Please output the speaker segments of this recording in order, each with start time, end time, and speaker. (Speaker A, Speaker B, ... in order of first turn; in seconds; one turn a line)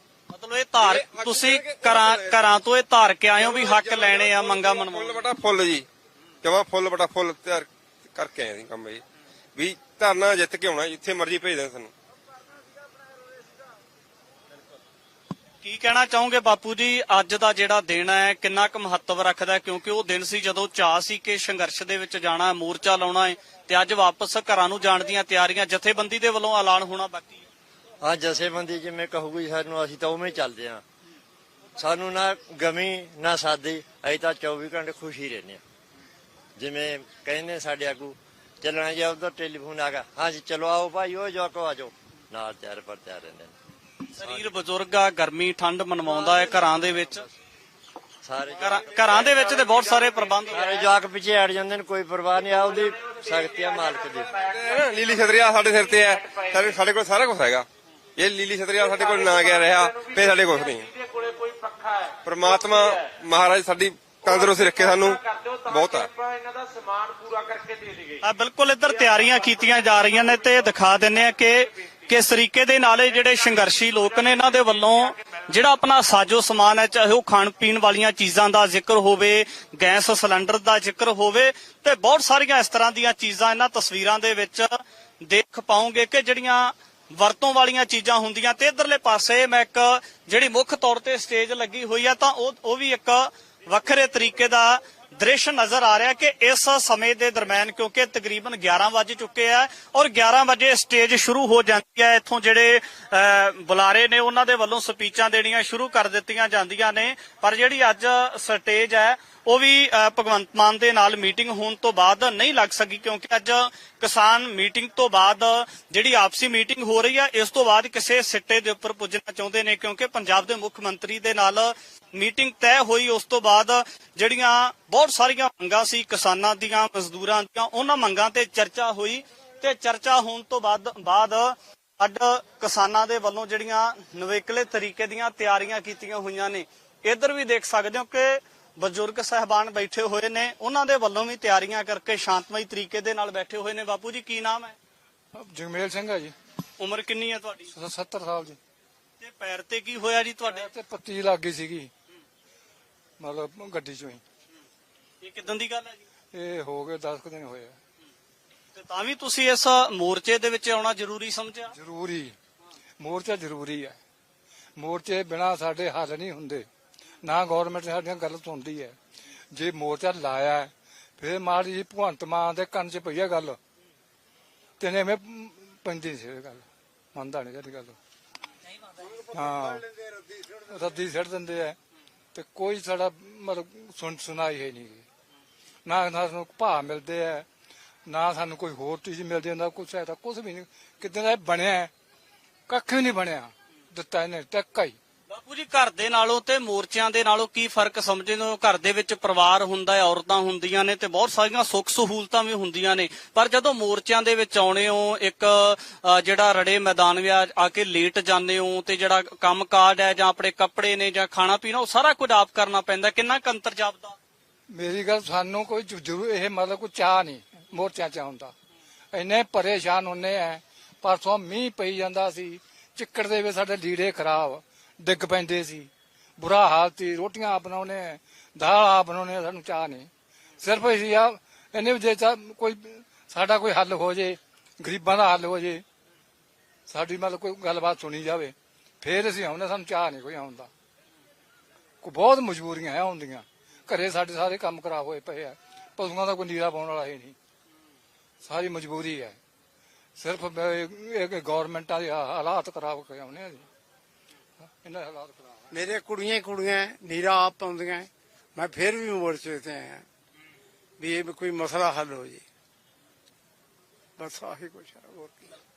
Speaker A: 0.3-5.2
Speaker B: 0.8-2.4
Speaker B: 3.4-5.9
Speaker B: 6.4-9.0
Speaker B: 9.6-11.9
Speaker A: 15.6-27.5
Speaker C: 28.0-30.8
Speaker C: 31.8-35.6
Speaker C: 36.6-43.5
Speaker C: 44.2-44.5
Speaker A: 44.2-47.2
Speaker C: 48.2-49.5
Speaker A: 48.6-50.7
Speaker C: 50.5-54.4
Speaker B: 54.5-60.9
Speaker B: 62.2-66.1
Speaker A: 68.2-144.8
Speaker D: 145.3-146.3
Speaker A: 146.8-147.7
Speaker D: 147.7-148.6
Speaker A: 149.2-150.7
Speaker D: 150.5-151.9
Speaker D: 153.2-154.2
Speaker A: 155.2-156.0
Speaker D: 156.3-157.8
Speaker A: 158.7-161.7
Speaker D: 161.7-162.4
Speaker D: 163.0-164.0
Speaker D: 164.8-166.7
Speaker D: 167.2-169.0
Speaker D: 169.5-173.6
Speaker D: 174.8-178.0
Speaker D: 179.3-179.9
Speaker D: 180.5-181.8
Speaker D: 182.3-185.1
Speaker D: 185.8-187.5
Speaker D: 188.1-191.9
Speaker D: 192.7-195.0
Speaker A: 195.3-214.2
Speaker D: 214.7-218.5
Speaker D: 219.1-230.1
Speaker D: 230.6-235.8
Speaker D: 236.9-240.7
Speaker D: 242.0-247.3
Speaker D: 248.4-249.4
Speaker D: 250.2-253.7
Speaker D: 254.6-255.5
Speaker E: 255.7-260.0
Speaker E: 261.0-262.4
Speaker E: 264.2-265.5